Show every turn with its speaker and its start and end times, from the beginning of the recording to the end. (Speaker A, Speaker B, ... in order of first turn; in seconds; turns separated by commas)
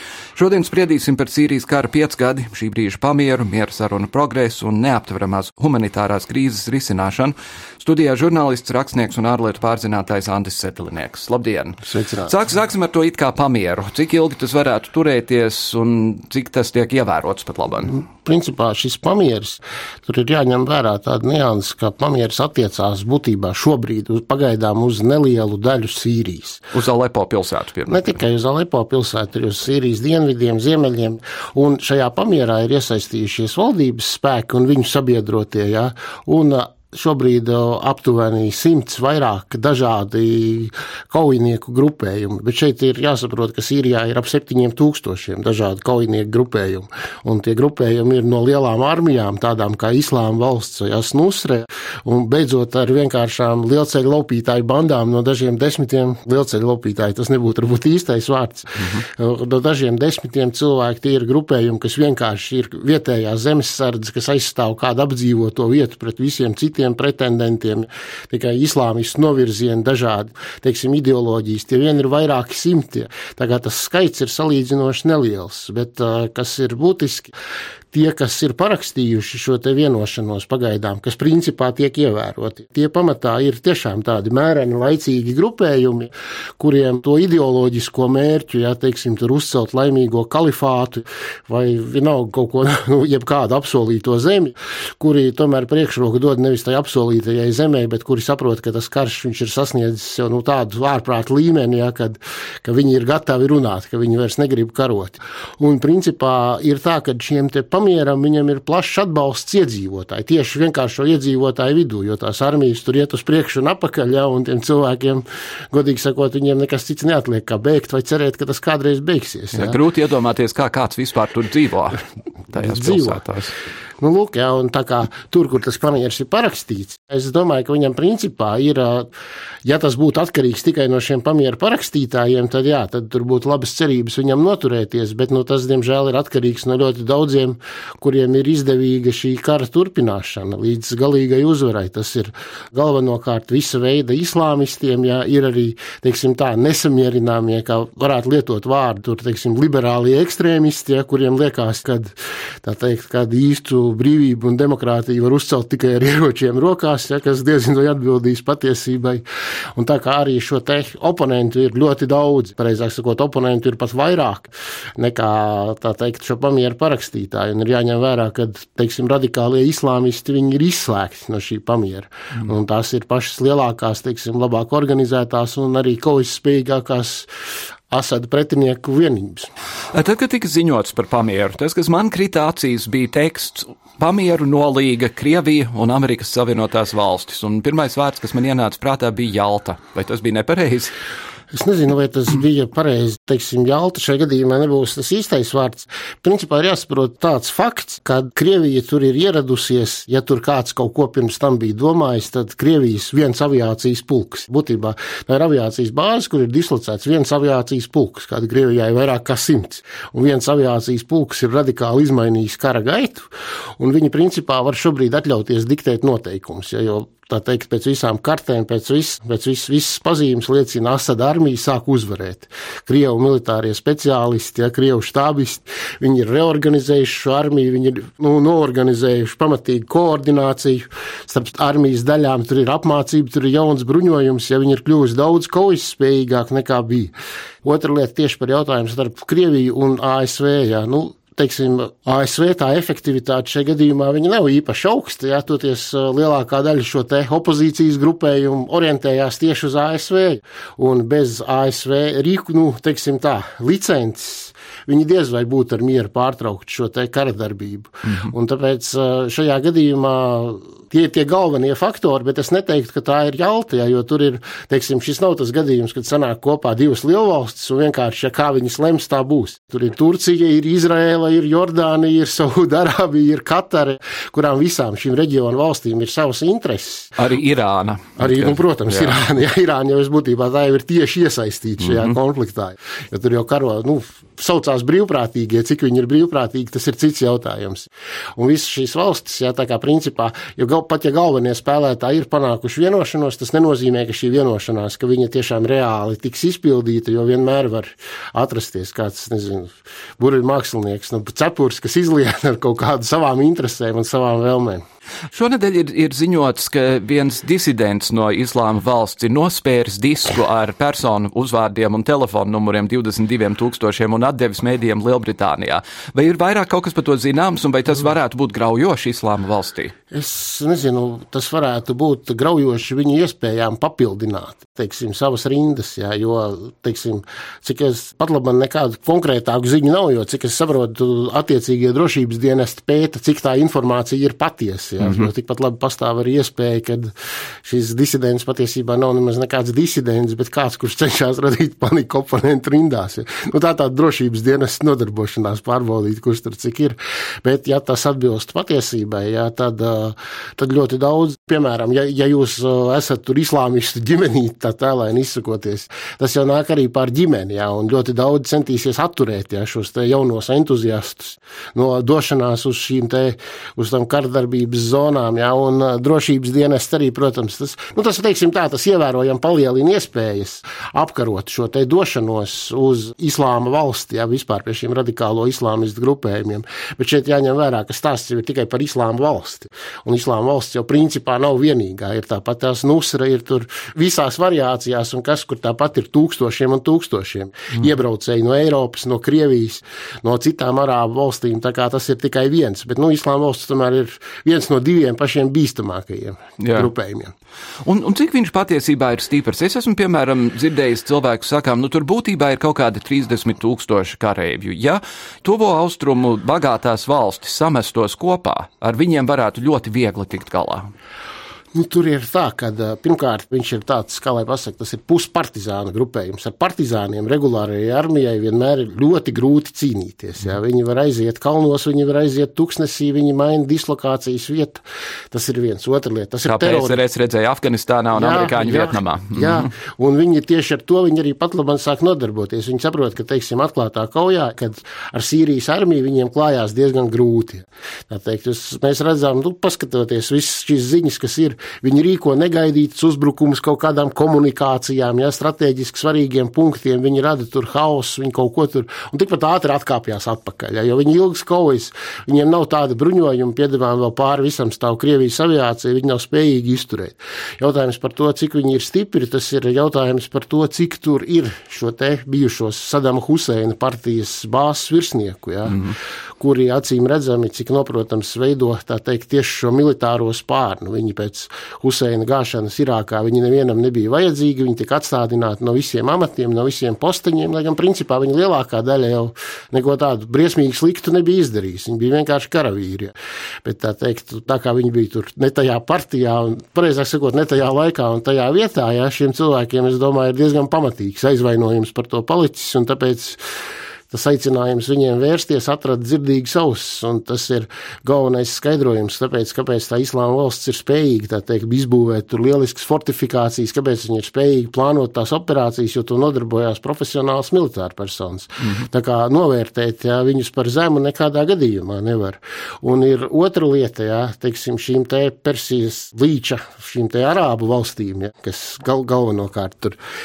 Speaker A: 0.3-18.0, Speaker B: 11.8-12.3, Speaker B: 17.9-26.6, Speaker A: 26.7-28.1, Speaker B: 27.9-77.3, Speaker B: 77.9-119.8, Speaker A: 119.5-122.0, Speaker A: 122.5-123.5, Speaker B: 122.5-123.3, Speaker B: 124.0-129.1, Speaker B: 129.6-159.2, Speaker B: 159.8-177.3, Speaker B: 177.9-179.5, Speaker A: 179.9-190.9, Speaker B: 191.5-213.2, Speaker B: 213.8-237.1, Speaker B: 237.6-277.1, Speaker A: 277.2-279.1, Speaker B: 278.2-304.8, Speaker A: 281.8-282.1, Speaker A: 305.3-319.9, Speaker B: 320.1-337.1, Speaker A: 335.0-335.3, Speaker B: 337.6-397.3, Speaker A: 396.6-396.9, Speaker A: 397.8-410.9, Speaker B: 411.7-427.0, Speaker A: 426.4-429.7, Speaker B: 428.1-493.4, Speaker A: 465.7-465.9, Speaker B: 494.1-520.0, Speaker A: 508.6-508.9